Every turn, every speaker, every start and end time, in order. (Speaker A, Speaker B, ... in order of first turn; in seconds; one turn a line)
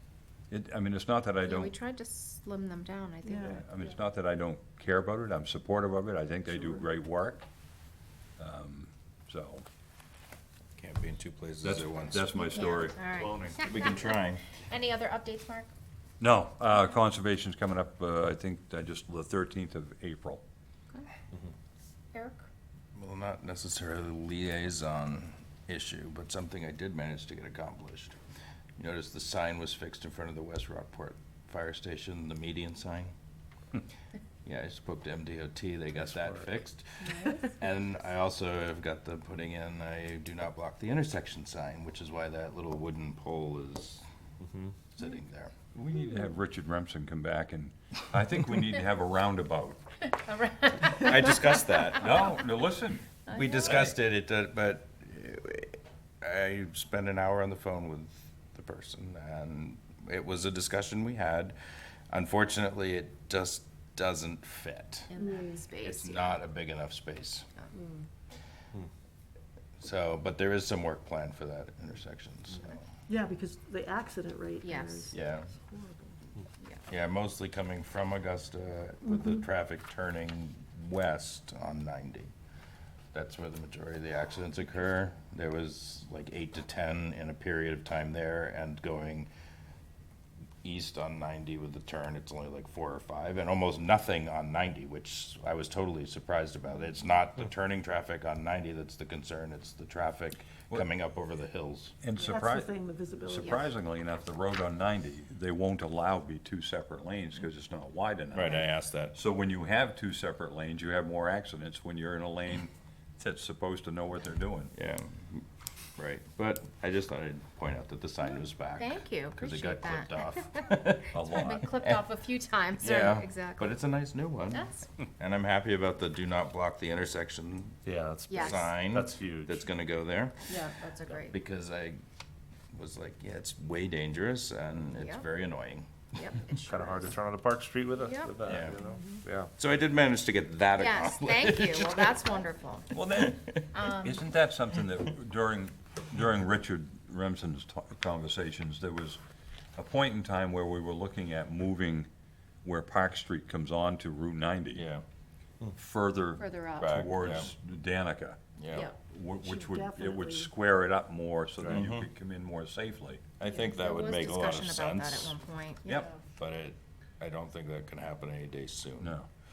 Speaker A: 0.5-1.7
Speaker B: 1.4-3.8
Speaker C: 3.2-3.6
Speaker A: 3.6-7.4
Speaker C: 6.5-6.8
Speaker A: 8.4-9.6
Speaker D: 10.8-12.3
Speaker A: 11.6-13.8
Speaker B: 12.3-15.7
Speaker D: 13.6-14.4
Speaker A: 16.2-20.4
Speaker B: 22.1-22.5
Speaker D: 22.9-28.1
Speaker D: 28.8-33.1
Speaker D: 34.4-44.0
Speaker E: 36.1-36.4
Speaker B: 37.1-37.4
Speaker D: 44.9-45.5
Speaker A: 45.7-49.8
Speaker B: 50.0-52.2
Speaker D: 50.9-52.3
Speaker A: 51.9-53.9
Speaker B: 53.3-53.9
Speaker D: 53.3-61.5
Speaker D: 62.1-65.1
Speaker B: 65.1-66.4
Speaker C: 65.2-65.6
Speaker D: 65.8-67.5
Speaker C: 67.7-68.0
Speaker D: 69.8-72.8
Speaker C: 73.1-76.2
Speaker B: 74.6-75.1
Speaker D: 75.1-75.5
Speaker D: 76.9-82.3
Speaker C: 79.0-79.4
Speaker D: 83.1-89.3
Speaker D: 90.6-101.9
Speaker A: 102.0-102.7
Speaker C: 102.2-103.7
Speaker A: 103.2-114.7
Speaker D: 108.3-109.1
Speaker D: 114.7-115.4
Speaker D: 116.0-121.1
Speaker B: 118.2-123.8
Speaker A: 121.1-121.8
Speaker D: 121.8-122.1
Speaker D: 122.8-127.8
Speaker B: 124.5-124.9
Speaker E: 127.8-129.6
Speaker B: 128.3-128.8
Speaker D: 128.3-130.5
Speaker B: 130.5-131.3
Speaker D: 131.1-132.0
Speaker D: 132.7-136.1
Speaker B: 134.9-135.2
Speaker B: 136.2-137.1
Speaker E: 136.7-139.5
Speaker B: 137.9-139.1
Speaker D: 138.4-138.8
Speaker D: 139.6-142.2
Speaker B: 140.8-143.0
Speaker A: 142.9-149.2
Speaker D: 143.2-143.6
Speaker B: 143.7-144.2
Speaker A: 149.8-152.1
Speaker A: 152.6-154.8
Speaker D: 154.7-155.0
Speaker A: 155.7-158.4
Speaker B: 156.4-157.0
Speaker D: 156.8-157.5
Speaker D: 158.6-158.9
Speaker A: 159.0-163.2
Speaker C: 159.4-160.5
Speaker D: 161.7-162.0
Speaker D: 163.4-165.3
Speaker B: 163.5-166.0
Speaker D: 166.3-169.2
Speaker A: 169.0-169.3